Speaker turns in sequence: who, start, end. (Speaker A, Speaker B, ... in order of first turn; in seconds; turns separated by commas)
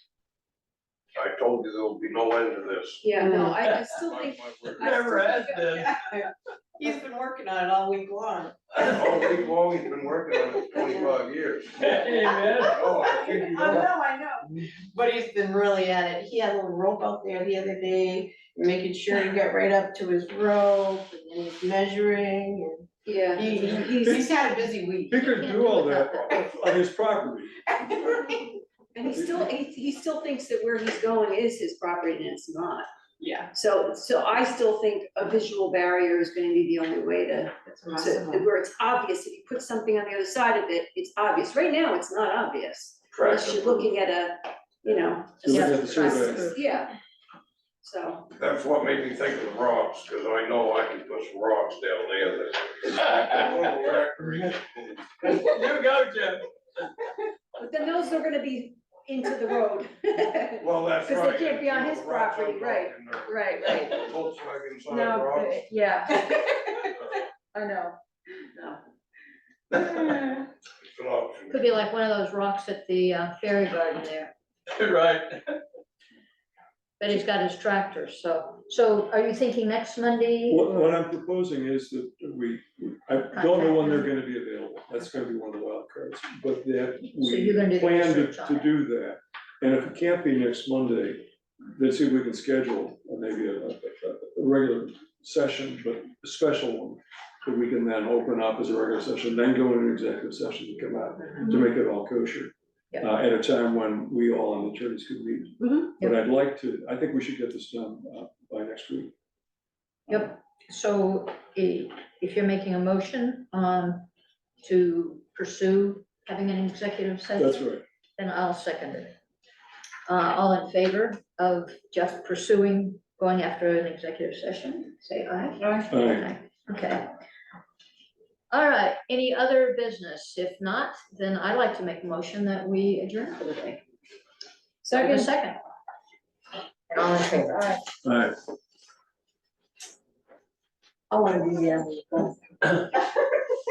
Speaker A: 1.1-3.0, Speaker B: 3.0-5.9, Speaker C: 3.3-3.9, Speaker A: 4.0-5.0, Speaker C: 4.7-6.0, Speaker D: 6.8-8.8, Speaker C: 8.8-9.2, Speaker A: 8.9-11.8, Speaker C: 11.8-13.9, Speaker D: 11.9-25.2, Speaker A: 12.7-13.6, Speaker B: 23.1-24.3, Speaker E: 25.1-27.6, Speaker F: 25.1-26.6, Speaker D: 27.8-28.5, Speaker B: 28.9-32.9, Speaker E: 29.1-29.5, Speaker D: 33.2-33.5, Speaker B: 33.5-47.0, Speaker D: 37.7-38.5, Speaker A: 43.1-43.9, Speaker E: 45.4-46.5, Speaker F: 45.5-46.7, Speaker B: 47.8-48.3, Speaker A: 48.4-55.3, Speaker C: 53.0-53.6, Speaker C: 55.2-56.5, Speaker B: 57.6-64.1, Speaker A: 60.6-63.3, Speaker A: 63.9-65.6, Speaker B: 64.9-68.8, Speaker B: 69.8-70.5, Speaker A: 70.8-71.6, Speaker F: 71.5-74.3, Speaker C: 74.7-75.5, Speaker F: 77.0-80.7, Speaker E: 80.5-109.1, Speaker F: 83.3-84.1, Speaker F: 87.1-88.7, Speaker B: 105.6-105.9, Speaker F: 110.1-114.1, Speaker F: 114.6-119.2, Speaker E: 117.4-117.8, Speaker F: 120.1-127.1, Speaker B: 125.6-125.9, Speaker E: 125.9-126.3, Speaker F: 128.5-133.8, Speaker B: 134.8-135.3, Speaker F: 134.9-135.6, Speaker F: 136.9-137.8, Speaker E: 138.1-138.3